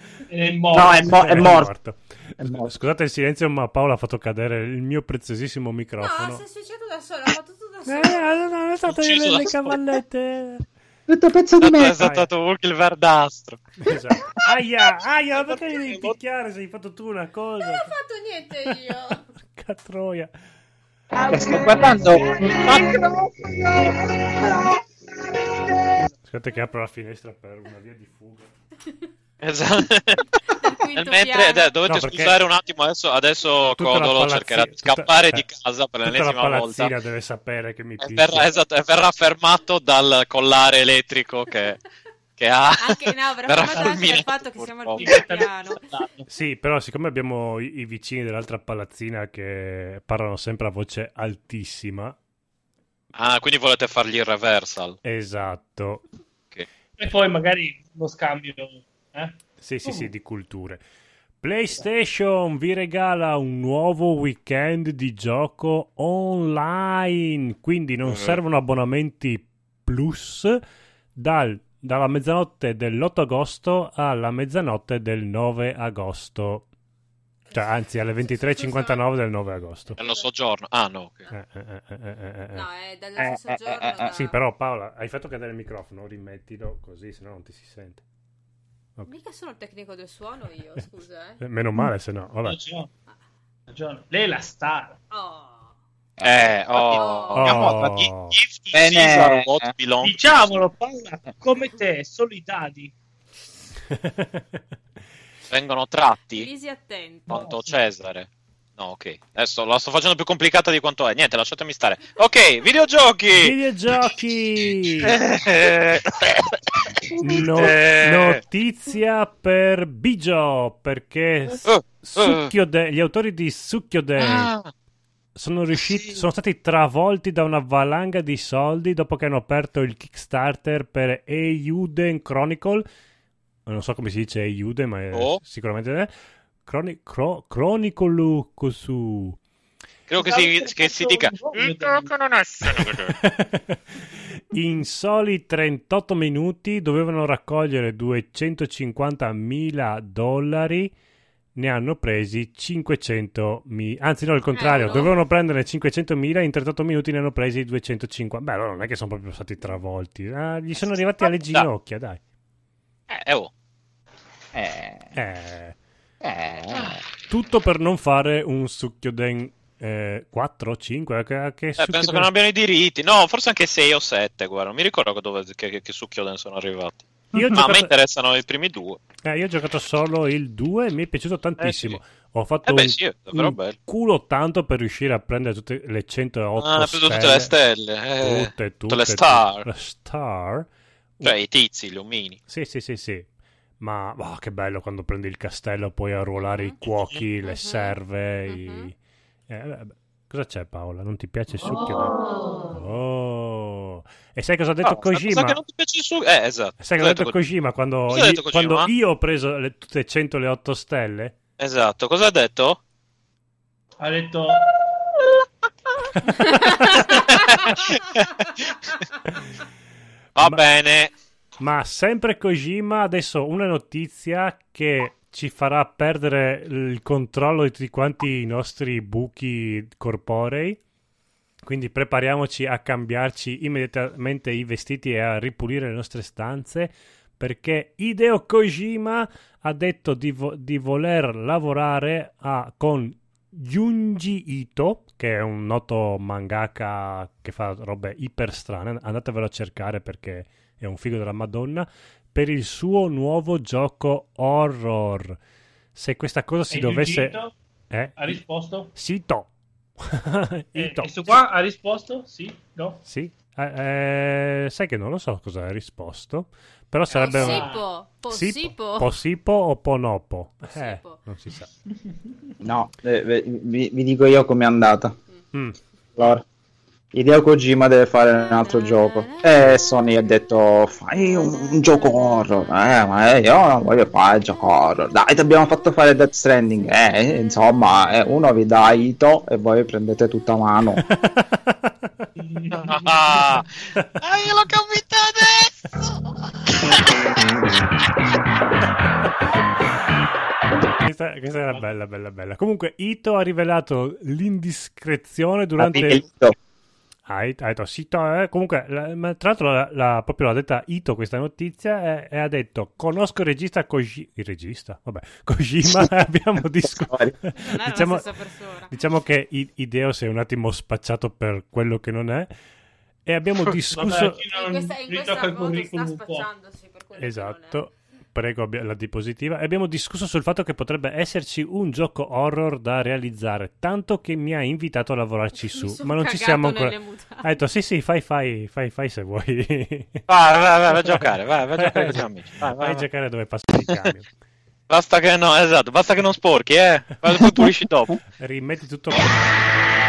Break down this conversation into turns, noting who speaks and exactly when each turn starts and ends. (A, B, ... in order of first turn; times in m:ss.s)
0:00.3-0:01.5 A
0:00.7-0:01.7 B
0:01.0-0:06.4 C
0:02.4-0:02.7 B
0:06.0-0:08.5 D
0:07.9-0:10.6 C
0:08.8-0:09.8 E
0:11.1-0:12.1 B
0:11.6-0:13.6 E
0:12.0-0:12.3 C
0:13.8-0:17.9 C
0:17.6-0:19.2 D
0:19.4-0:20.3 C
0:21.3-0:22.6 D
0:21.3-0:24.6 B
0:26.3-0:28.5 C
0:29.4-0:30.3 E
0:30.5-0:31.8 D
0:31.0-0:36.9 E
0:31.9-0:32.4 C
0:33.7-0:35.4 C
0:36.0-0:38.5 C
0:38.0-0:41.8 E
0:42.4-0:45.1 E
0:42.8-0:45.8 D
0:43.7-0:44.0 A
0:45.0-0:46.3 A
0:46.3-0:52.2 C
0:53.1-0:55.0 E
0:55.0-0:56.0 C
0:57.0-1:00.1 A
0:59.6-1:00.8 C
1:01.4-1:10.6 C
1:08.0-1:08.4 E
1:11.2-1:16.7 C
1:17.5-1:19.1 D
1:17.5-1:20.0 C
1:19.9-1:20.3 D
1:20.0-1:21.3 E
1:21.3-1:22.7 C
1:22.5-1:24.4 D
1:23.2-1:24.2 B
1:24.1-1:28.0 C
1:29.1-1:31.4 D
1:31.4-1:32.6 C
1:32.4-1:32.9 A
1:33.7-1:35.0 A
1:35.1-1:35.7 D
1:36.2-1:38.0 B
1:36.2-1:40.6 E
1:36.9-1:37.5 D
1:37.3-1:38.4 C
1:38.7-1:39.7 B
1:40.0-1:42.9 A
1:43.9-1:44.6 C
1:45.5-1:46.5 E
1:46.3-1:47.5 D
1:47.3-1:53.6 E
1:47.3-1:47.7 A
1:53.3-1:55.2 C
1:55.0-1:56.6 E
1:57.2-2:04.5 C
1:57.4-1:58.4 E
2:01.6-2:02.5 E
2:04.2-2:04.7 E
2:05.4-2:12.8 C
2:05.8-2:06.2 E
2:13.7-2:16.1 C
2:15.1-2:15.4 E
2:16.6-2:19.4 C
2:20.1-2:23.2 E
2:20.2-2:22.1 A
2:22.8-2:23.8 C
2:24.4-2:30.9 C
2:31.6-2:42.2 C
2:34.5-2:35.2 D
2:43.1-2:43.5 E
2:44.5-2:45.1 B
2:45.1-2:45.8 C
2:46.2-2:47.0 B
2:47.3-2:52.3 C
2:51.8-2:59.0 E
2:57.3-2:57.9 C
2:59.2-3:07.5 C
3:01.6-3:02.0 E
3:02.7-3:03.8 E
3:06.6-3:09.7 E
3:08.2-3:10.7 C
3:11.2-3:12.4 E
3:12.5-3:13.3 C
3:13.8-3:19.0 C
3:16.4-3:16.8 D
3:16.8-3:17.2 E
3:17.4-3:18.9 D
3:19.5-3:25.6 C
3:24.8-3:27.4 E
3:26.8-3:31.4 C
3:28.1-3:28.9 E
3:31.6-3:32.8 E
3:34.0-3:34.8 A
3:37.1-3:38.8 E
3:40.4-3:41.1 E
3:41.6-3:50.8 C
3:51.6-4:15.4 C
4:15.9-4:17.4 C
4:16.7-4:17.6 A
4:17.9-4:18.4 C
4:18.2-4:18.9 A
4:18.9-4:21.4 C
4:20.8-4:23.0 A
4:23.1-4:27.7 C
4:27.1-4:27.8 A
4:27.1-4:29.1 D
4:28.3-4:31.7 C
4:30.7-4:31.2 D
4:32.6-4:35.2 B
4:36.2-4:36.4 B
4:37.1-4:51.1 B
4:38.6-4:39.8 D
4:51.1-4:52.3 C
4:52.4-4:53.3 A
4:52.7-4:56.1 E
4:56.7-4:57.2 E
5:01.0-5:06.3 C
5:05.8-5:06.6 B
5:07.3-5:18.3 C
5:16.8-5:17.4 B
5:17.6-5:19.0 D
5:18.9-5:22.5 C
5:23.2-5:24.4 C
5:23.9-5:26.5 A
5:24.5-5:27.9 D
5:27.2-5:40.2 C
5:35.6-5:37.6 D
5:40.3-5:43.0 E
5:40.9-5:41.2 C
5:41.8-5:44.3 C
5:44.9-5:48.2 E
5:48.3-5:49.6 C